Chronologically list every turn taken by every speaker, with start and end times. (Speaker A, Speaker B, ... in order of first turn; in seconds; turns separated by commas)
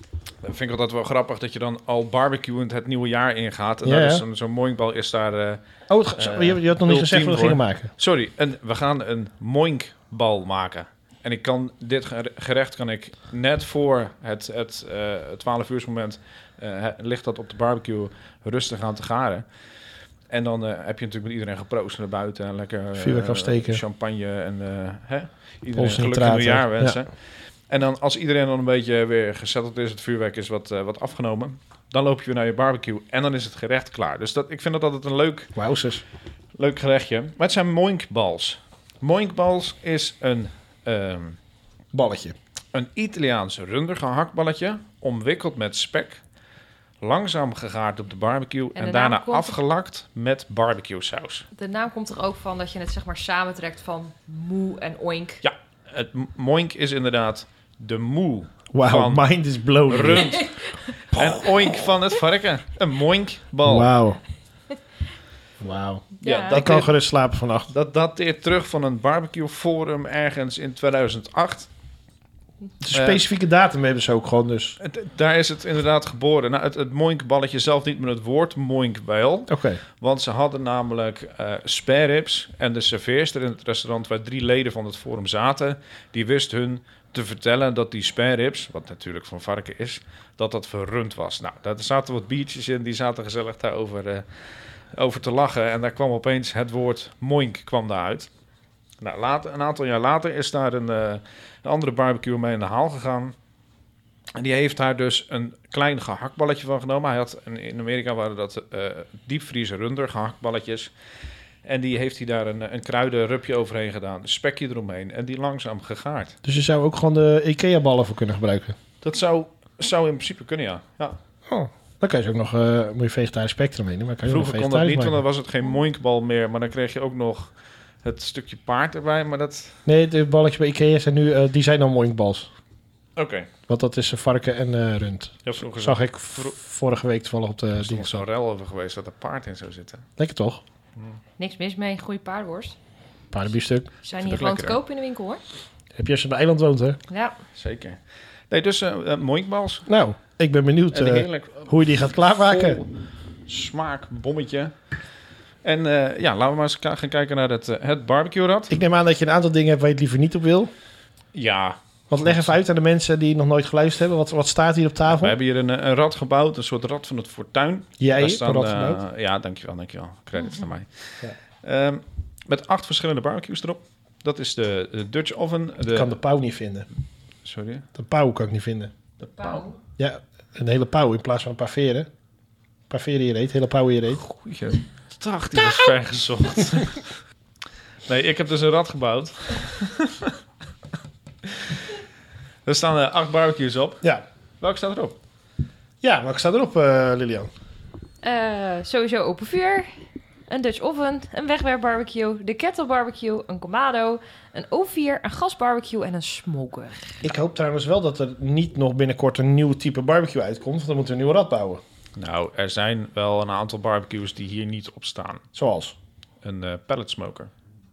Speaker A: 0.4-5.6, Speaker B: 3.8-4.2, Speaker B: 5.9-7.9, Speaker A: 6.2-19.4, Speaker A: 20.3-35.5, Speaker B: 22.9-23.8, Speaker B: 25.8-27.0, Speaker B: 35.5-36.0, Speaker A: 36.6-41.4, Speaker B: 41.9-42.4, Speaker A: 42.7-46.2, Speaker A: 47.0-51.5, Speaker C: 48.7-49.6, Speaker C: 51.5-55.4, Speaker A: 55.4-59.2, Speaker B: 58.7-60.4, Speaker A: 59.9-63.9, Speaker C: 60.4-60.9, Speaker B: 61.1-61.5, Speaker B: 63.6-64.2, Speaker B: 65.6-67.7, Speaker C: 66.2-66.6, Speaker A: 66.2-66.9, Speaker A: 67.7-71.7, Speaker B: 72.8-74.8, Speaker A: 72.9-73.2, Speaker A: 74.8-98.3, Speaker B: 79.5-79.8, Speaker A: 99.0-103.3, Speaker A: 104.3-110.9, Speaker A: 111.6-116.3, Speaker B: 116.4-118.8, Speaker A: 119.0-121.2, Speaker B: 121.5-125.2, Speaker A: 124.2-127.5, Speaker A: 128.0-129.8, Speaker B: 129.8-132.5, Speaker A: 133.2-133.5, Speaker B: 133.7-138.2, Speaker A: 135.4-136.6, Speaker A: 137.7-140.0, Speaker B: 140.2-140.6, Speaker C: 141.4-142.8, Speaker B: 143.3-143.9, Speaker C: 144.0-145.4, Speaker A: 144.2-144.8, Speaker B: 145.9-147.0, Speaker C: 147.1-147.3, Speaker A: 147.6-148.0, Speaker A: 148.5-149.9, Speaker B: 149.9-152.8, Speaker A: 150.9-152.9, Speaker A: 153.5-154.7, Speaker A: 155.6-158.8, Speaker B: 158.7-160.7, Speaker A: 161.3-162.5, Speaker B: 162.1-165.3, Speaker A: 165.1-176.1, Speaker B: 168.0-169.0, Speaker B: 175.9-176.9, Speaker A: 177.4-177.8, Speaker B: 177.9-178.9, Speaker A: 179.3-179.7, Speaker C: 179.4-179.7, Speaker B: 180.0-182.1, Speaker B: 182.9-184.2, Speaker A: 184.1-187.1, Speaker A: 188.1-190.3, Speaker A: 191.5-191.7, Speaker A: 192.7-194.0, Speaker A: 194.6-195.2, Speaker B: 196.0-197.5, Speaker C: 198.2-199.9, Speaker C: 200.5-207.2, Speaker B: 207.2-211.8, Speaker A: 212.2-215.4, Speaker B: 215.5-215.9, Speaker A: 216.4-217.5